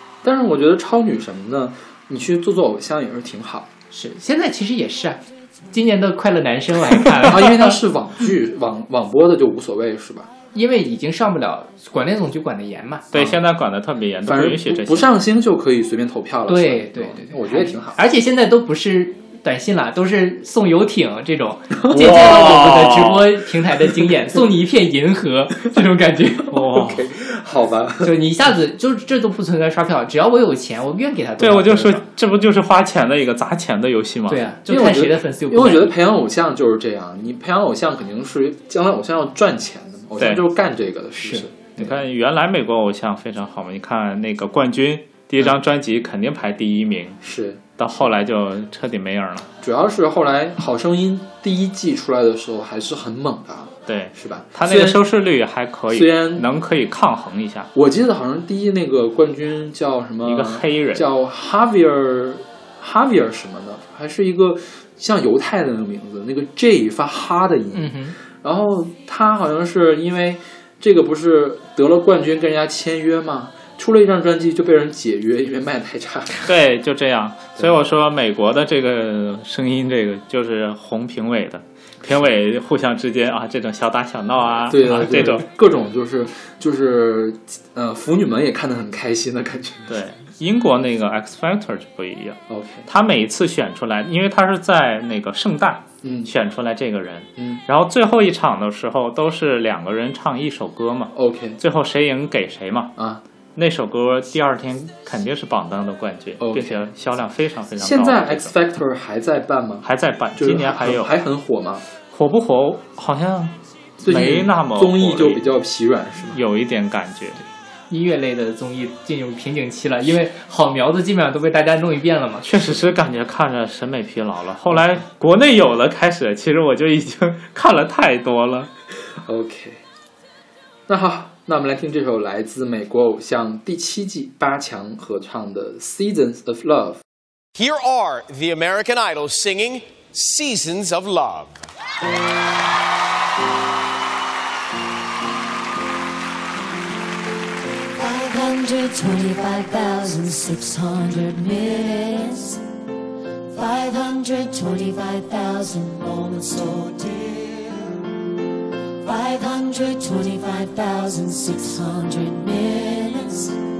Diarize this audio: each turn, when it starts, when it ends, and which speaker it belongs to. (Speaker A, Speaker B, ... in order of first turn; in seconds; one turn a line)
Speaker A: 0.2-3.7
Speaker B: 3.9-5.2
Speaker B: 5.7-7.8
Speaker A: 7.2-10.3
Speaker B: 10.5-13.1
Speaker C: 13.1-15.1
Speaker A: 13.1-13.4
Speaker A: 14.2-18.0
Speaker B: 16.5-26.6
Speaker A: 21.9-22.5
Speaker C: 21.9-23.4
Speaker C: 26.5-27.1
Speaker A: 26.6-28.2
Speaker B: 28.0-32.0
Speaker C: 31.4-34.5
Speaker B: 34.3-36.0
Speaker A: 34.7-42.0
Speaker C: 40.2-40.5
Speaker C: 41.8-47.2
Speaker A: 47.2-47.6
Speaker C: 47.8-49.5
Speaker A: 49.6-55.0
Speaker C: 53.9-57.7
Speaker A: 55.9-56.5
Speaker A: 57.8-76.5
Speaker C: 60.2-61.1
Speaker B: 67.7-68.2
Speaker C: 76.4-85.5
Speaker A: 84.6-90.0
Speaker C: 89.9-103.0
Speaker A: 92.5-92.9
Speaker A: 96.0-96.3
Speaker A: 97.4-97.6
Speaker A: 101.1-101.6
Speaker A: 103.0-103.2
Speaker C: 103.6-108.5
Speaker A: 106.4-106.8
Speaker A: 107.8-111.8
Speaker C: 109.8-111.1
Speaker C: 112.1-115.4
Speaker A: 114.0-116.4
Speaker C: 116.3-117.4
Speaker B: 117.9-122.5
Speaker C: 122.5-128.7
Speaker A: 129.2-129.8
Speaker A: 130.9-137.0
Speaker D: 137.6-141.6
Speaker E: 147.9-152.6
Speaker E: 153.5-158.0
Speaker E: 159.0-163.6